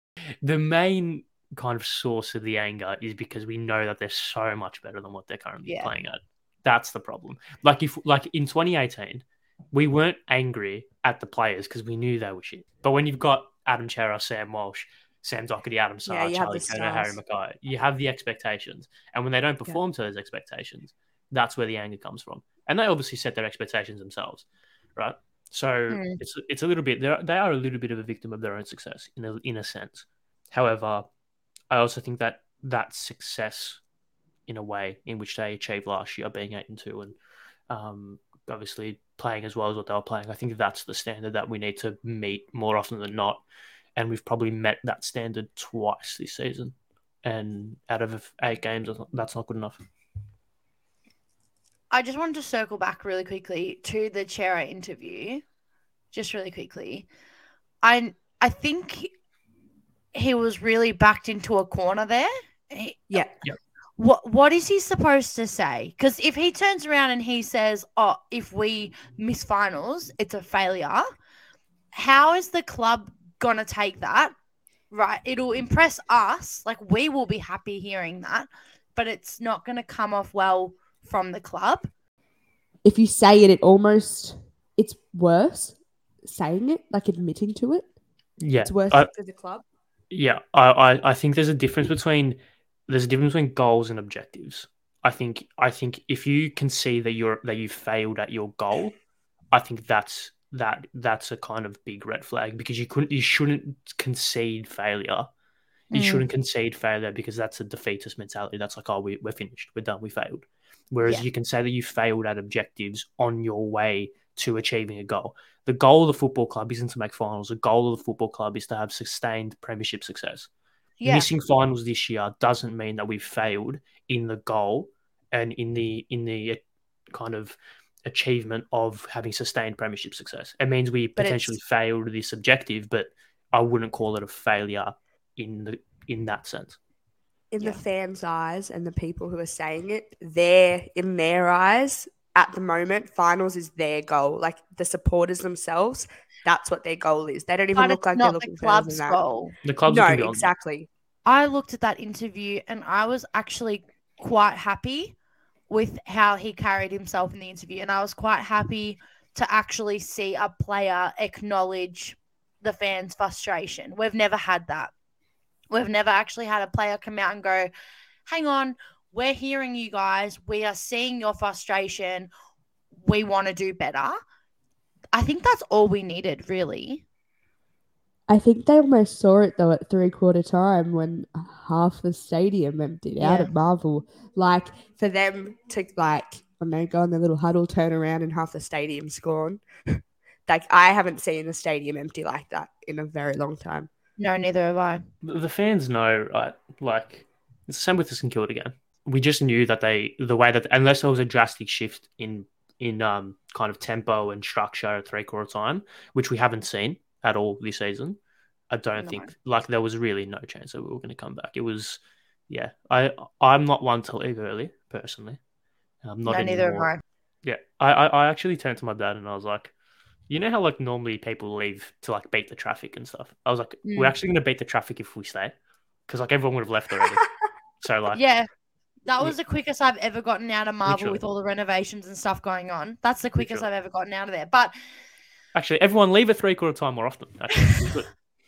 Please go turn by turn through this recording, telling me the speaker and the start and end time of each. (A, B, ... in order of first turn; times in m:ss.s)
0:00.4-0:31.0 A
0:05.6-0:05.9 B
0:16.0-0:17.2 C
0:25.9-0:26.2 B
0:31.7-0:33.8 A
0:34.5-0:37.2 A
0:37.7-0:43.4 A
0:44.0-0:49.8 A
0:51.9-0:55.4 B
0:56.1-0:57.1 B
0:57.8-0:59.1 B
1:00.1-1:03.2 B
1:04.0-1:11.1 B
1:11.9-1:14.3 B
1:14.9-1:21.9 B
1:22.8-1:27.9 C
1:28.4-1:29.1 A
1:28.6-1:29.6 C
1:30.1-1:32.4 A
1:32.9-1:39.0 A
1:39.5-1:45.3 A
1:45.9-1:46.2 B
1:45.9-2:00.5 A
2:01.0-2:01.3 B
2:01.0-2:06.6 A
2:07.1-2:16.8 A
2:11.2-2:11.5 B
2:17.5-2:29.2 C
2:27.7-2:29.5 B
2:29.6-2:30.5 A
2:29.8-2:30.9 C
2:31.2-2:35.1 B
2:35.7-2:44.9 B
2:45.7-2:47.7 B
2:48.2-2:52.3 B
2:52.9-2:54.2 B
2:55.1-2:57.0 B
2:58.3-3:13.9 C
3:03.2-3:03.5 B
3:14.2-3:15.0 B
3:15.2-3:28.2 A
3:28.7-3:35.4 A
3:29.0-3:29.3 B
3:36.0-3:36.9 A
3:36.2-3:37.0 B
3:37.4-3:39.7 A
3:40.3-3:45.5 A
3:43.8-3:44.2 B
3:46.1-3:47.2 A
3:47.8-3:48.2 A
3:48.1-3:48.5 B
3:49.0-3:54.7 B
3:50.8-3:51.2 A
3:53.4-3:53.7 A
3:55.5-3:58.1 A